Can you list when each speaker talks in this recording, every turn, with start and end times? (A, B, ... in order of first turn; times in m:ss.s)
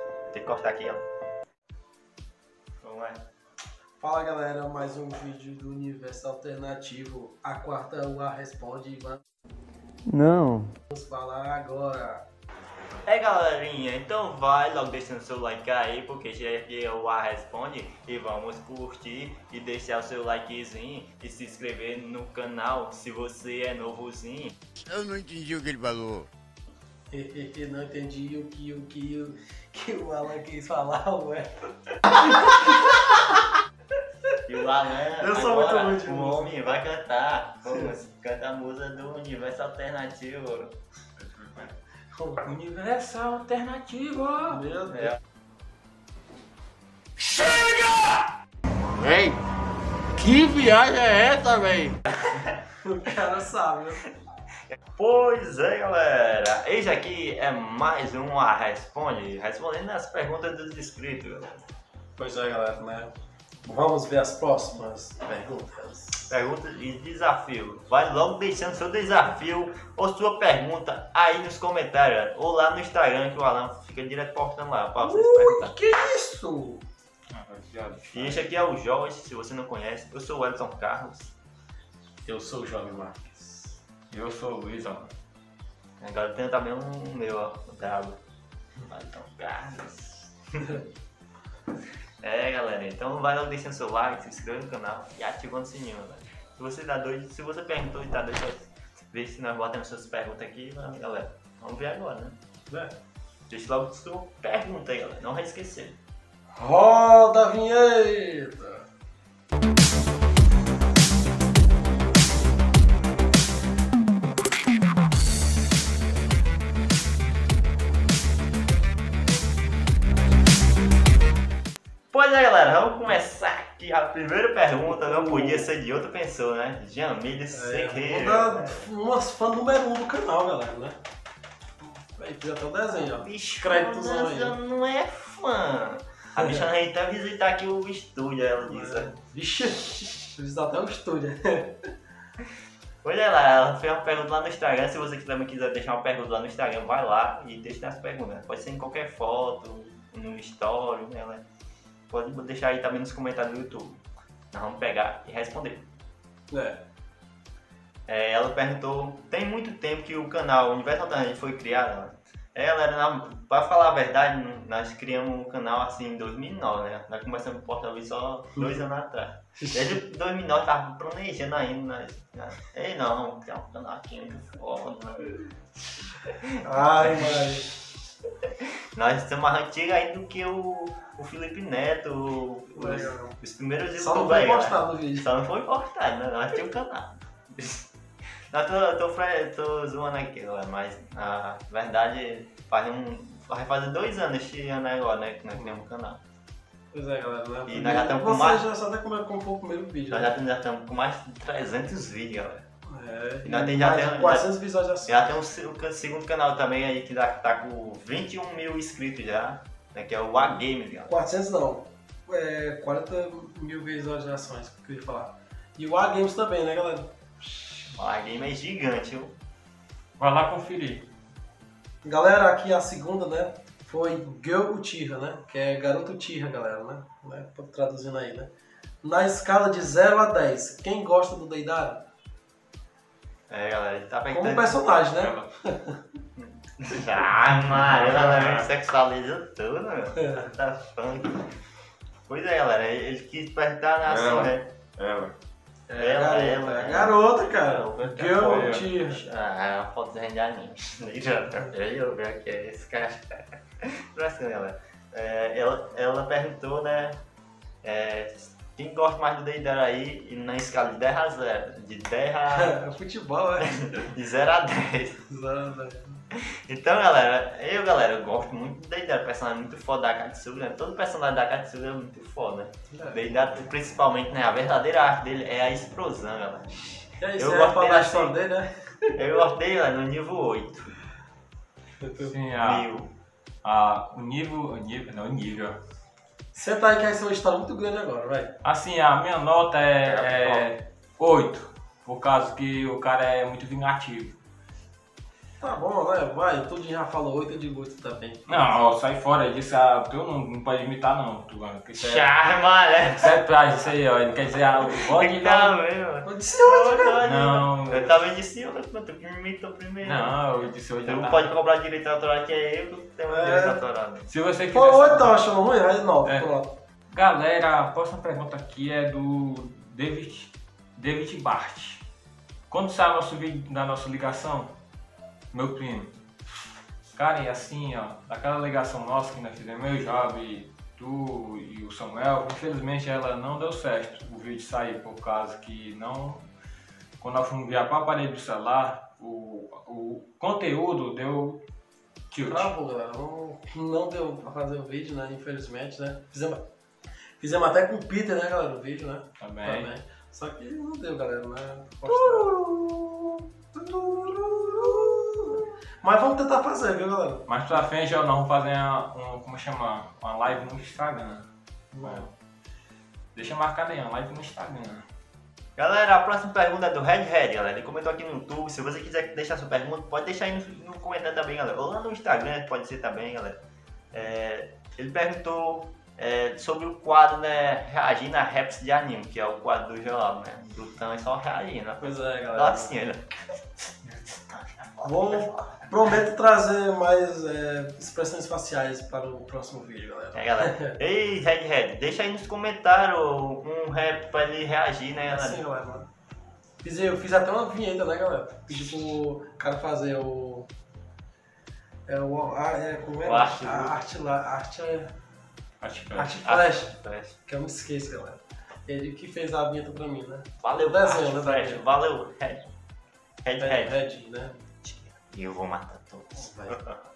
0:00.3-0:01.0 A
0:02.8-0:03.2 A
0:04.0-0:09.2 B
0:10.1-0:10.7 A
0:10.9-0:12.2 B
0:13.0-0:24.6 A
0:24.8-0:26.3 C
0:27.1-0:33.2 B
0:34.5-0:40.7 A
0:35.2-0:36.5 B
0:41.2-0:41.7 D
0:42.1-0:42.4 B
0:42.4-0:44.6 D
0:44.5-0:45.1 B
0:44.9-0:45.1 A
0:47.3-0:48.2 C
0:49.0-0:49.4 C
0:50.2-0:51.9 C
0:52.8-0:54.0 B
0:55.0-1:01.6 A
1:02.2-1:03.1 B
1:03.6-1:06.3 B
1:06.3-1:15.7 A
1:15.0-1:16.8 B
1:17.3-1:18.4 D
1:18.1-1:21.3 A
1:22.2-1:23.8 B
1:24.1-1:25.1 D
1:26.0-1:28.2 A
1:28.9-1:30.8 A
1:32.2-1:42.4 A
1:42.7-1:42.9 B
1:43.5-1:46.0 A
1:46.6-1:48.8 B
2:02.1-2:08.8 A
2:04.8-2:05.7 B
2:07.5-2:11.0 B
2:11.8-2:14.6 B
2:12.9-2:19.2 A
2:18.6-2:21.7 B
2:23.0-2:31.4 A
2:32.1-2:35.9 A
2:36.5-2:36.8 B
2:38.1-2:55.5 A
2:56.6-2:57.6 B
2:57.0-2:57.8 A
2:58.9-3:07.8 A
3:02.7-3:03.3 B
3:04.0-3:05.2 B
3:08.5-3:16.2 A
3:16.9-3:20.3 B
3:17.6-3:18.6 A
3:20.1-3:22.6 A
3:22.9-3:25.1 B
3:23.4-3:24.5 A
3:25.0-3:31.1 A
3:31.1-3:37.1 B
3:37.9-3:39.3 A
3:40.2-3:41.1 D
3:42.0-3:48.5 B
3:49.0-3:52.0 B
3:53.5-3:54.8 A
3:54.3-3:56.0 B
3:55.2-3:55.5 D
3:56.4-4:01.5 A
3:57.7-3:58.7 D
4:02.3-4:04.7 A
4:04.0-4:05.3 D
4:05.9-4:09.2 B
4:05.9-4:17.2 A
4:08.4-4:08.9 D
4:17.8-4:22.8 A
4:22.5-4:24.0 B
4:23.6-4:25.2 A
4:25.3-4:26.2 B
4:26.3-4:38.4 A
4:32.9-4:33.2 B
4:37.2-4:39.1 B
4:39.2-4:40.9 A
4:42.2-4:42.9 D
4:42.6-4:43.1 A
4:43.6-4:45.8 D
4:46.5-4:48.5 B
4:48.6-4:54.4 D
4:50.0-4:50.7 A
4:55.6-4:58.6 B
4:58.5-5:02.3 D
5:02.0-5:03.3 A
5:03.1-5:05.8 D
5:05.0-5:14.3 A
5:06.2-5:07.2 B
5:07.2-5:08.2 D
5:10.0-5:11.5 D
5:13.3-5:13.8 B
5:14.3-5:15.3 D
5:14.7-5:16.7 B
5:17.1-5:22.0 D
5:22.7-5:24.7 D
5:25.5-5:26.1 D
5:27.1-5:36.5 D
5:37.2-5:41.6 D
5:42.3-5:42.7 D
5:42.5-5:46.6 B
5:47.4-5:57.4 B
5:49.4-5:49.9 D
5:57.5-6:02.3 D
6:03.3-6:05.0 D
6:05.8-6:13.6 A
6:14.1-6:23.3 A
6:22.0-6:23.0 B
6:24.0-6:25.8 A
6:25.0-6:30.9 B
6:30.3-6:35.6 A
6:35.3-6:36.1 B
6:36.8-6:40.7 B
6:42.1-6:45.1 B
6:43.2-6:44.0 A
6:45.8-6:46.4 D
6:46.1-6:46.9 B
6:46.4-6:47.4 A
6:47.4-6:51.8 B
6:50.6-6:52.6 A
6:53.4-6:54.0 A
6:53.6-6:54.5 B
6:54.8-6:57.0 A
6:56.4-6:56.8 B